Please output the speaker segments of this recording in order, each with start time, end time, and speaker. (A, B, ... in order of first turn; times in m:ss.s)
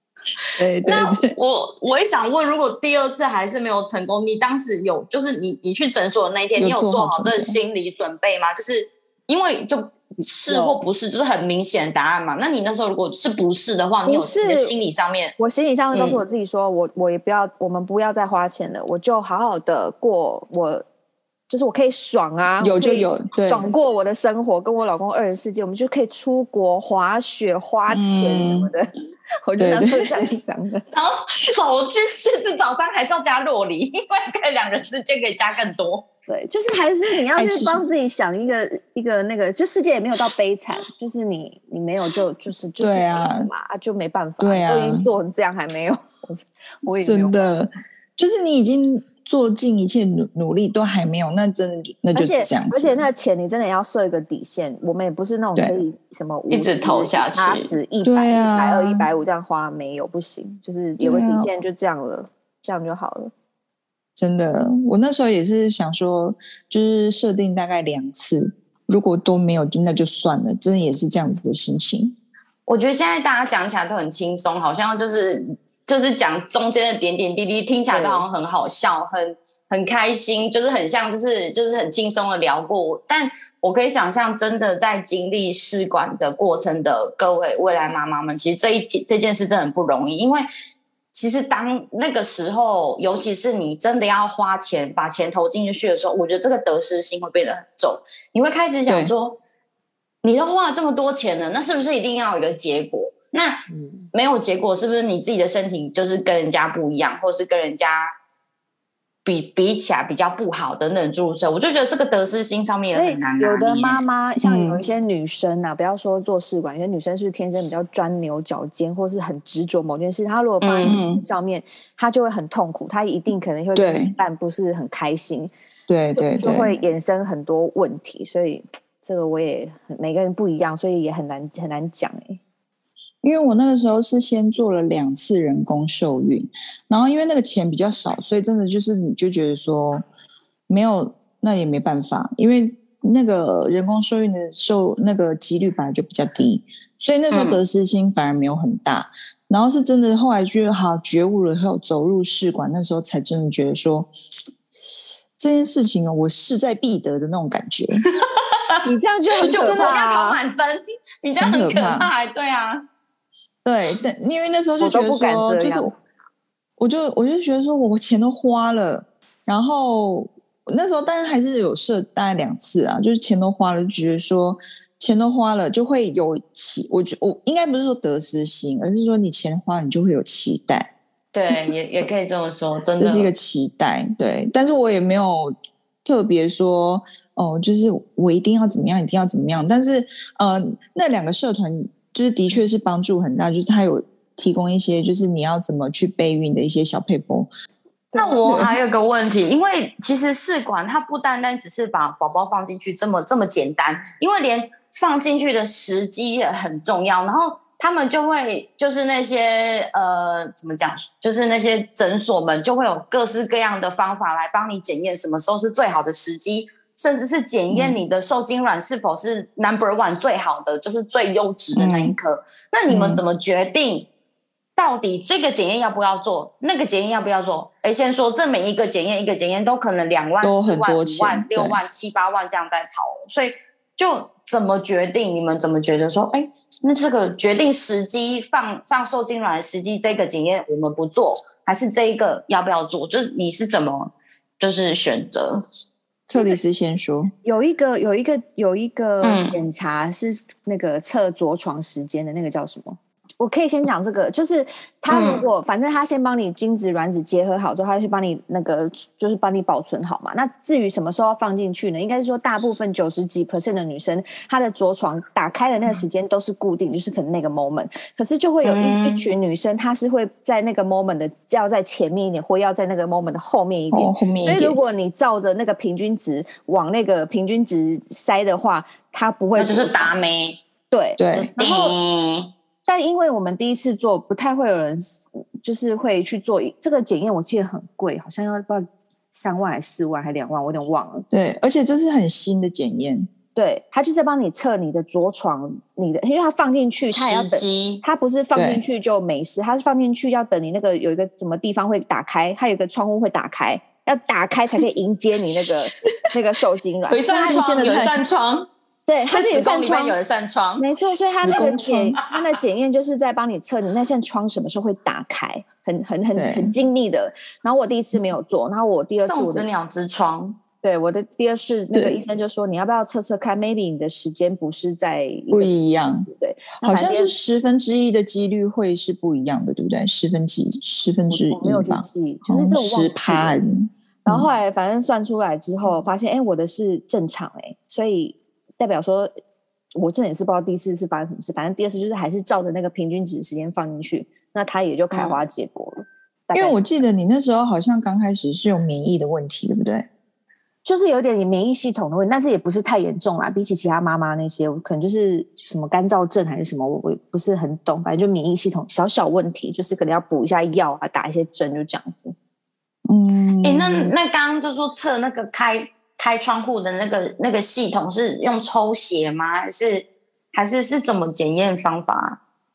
0:00.6-0:01.3 A
0:00.6-0:15.4 B
0:06.6-0:07.6 A
0:10.2-0:10.8 C
0:14.0-0:14.7 C
0:15.4-0:20.8 C
0:15.9-0:16.2 B
0:21.5-0:28.9 C
0:22.6-0:23.7 A
0:27.9-0:28.7 A
0:29.4-0:30.8 C
0:29.6-0:30.1 A
0:30.9-0:36.1 B
0:36.3-0:47.4 C
0:37.4-0:37.8 A
0:42.8-0:43.5 A
0:44.4-0:45.1 A
0:47.0-0:53.0 A
0:52.2-1:03.3 C
0:56.5-0:57.7 B
0:58.0-0:59.0 A
1:01.0-1:01.5 A
1:04.2-1:12.2 A
1:12.7-1:30.5 B
1:17.9-1:18.2 C
1:31.1-1:39.4 B
1:38.9-1:39.1 A
1:40.2-1:43.6 B
1:43.7-1:44.0 C
1:44.1-1:48.1 B
1:49.2-1:54.0 B
1:52.9-2:05.5 C
1:54.4-1:54.8 A
2:00.6-2:01.0 B
2:00.9-2:01.2 A
2:03.8-2:04.2 A
2:05.9-2:06.7 A
2:06.2-2:12.4 C
2:13.2-2:20.0 A
2:20.7-2:34.1 A
2:27.3-2:27.6 B
2:35.4-2:38.0 A
2:38.1-2:38.8 B
2:38.8-2:40.4 C
2:39.4-2:42.8 B
2:41.4-2:42.1 A
2:43.6-2:45.9 A
2:44.8-2:45.9 C
2:46.8-3:00.9 A
3:01.3-3:03.3 B
3:03.0-3:17.5 A
3:18.2-3:44.1 B
3:18.2-3:18.8 A
3:37.7-3:38.0 A
3:41.8-3:42.2 A
3:42.9-3:43.2 A
3:44.8-4:05.6 B
3:50.4-3:51.8 A
4:06.3-4:07.3 A
4:07.4-4:40.1 C
4:09.2-4:09.6 B
4:15.1-4:15.4 B
4:28.6-4:29.3 B
4:33.9-4:34.8 A
4:39.6-4:40.6 B
4:40.9-4:42.0 C
4:41.2-4:41.5 A
4:41.4-4:42.5 B
4:42.9-4:51.3 C
4:51.3-4:53.3 A
4:53.6-5:07.9 C
4:57.1-4:58.0 B
4:58.6-4:58.8 A
5:07.1-5:08.7 B
5:07.4-5:08.2 A
5:09.1-5:10.2 C
5:09.3-5:10.8 B
5:10.8-5:19.7 C
5:11.4-5:12.2 A
5:16.4-5:16.8 A
5:19.2-5:20.6 B
5:20.8-5:25.7 C
5:21.9-5:22.2 A
5:25.5-5:26.3 A
5:26.3-5:27.3 C
5:26.8-5:34.5 A
5:31.3-5:33.6 C
5:34.3-5:39.3 C
5:40.0-5:46.9 C
5:46.5-5:50.1 A
5:50.8-6:02.4 C
6:03.1-6:04.1 A
6:03.6-6:12.4 B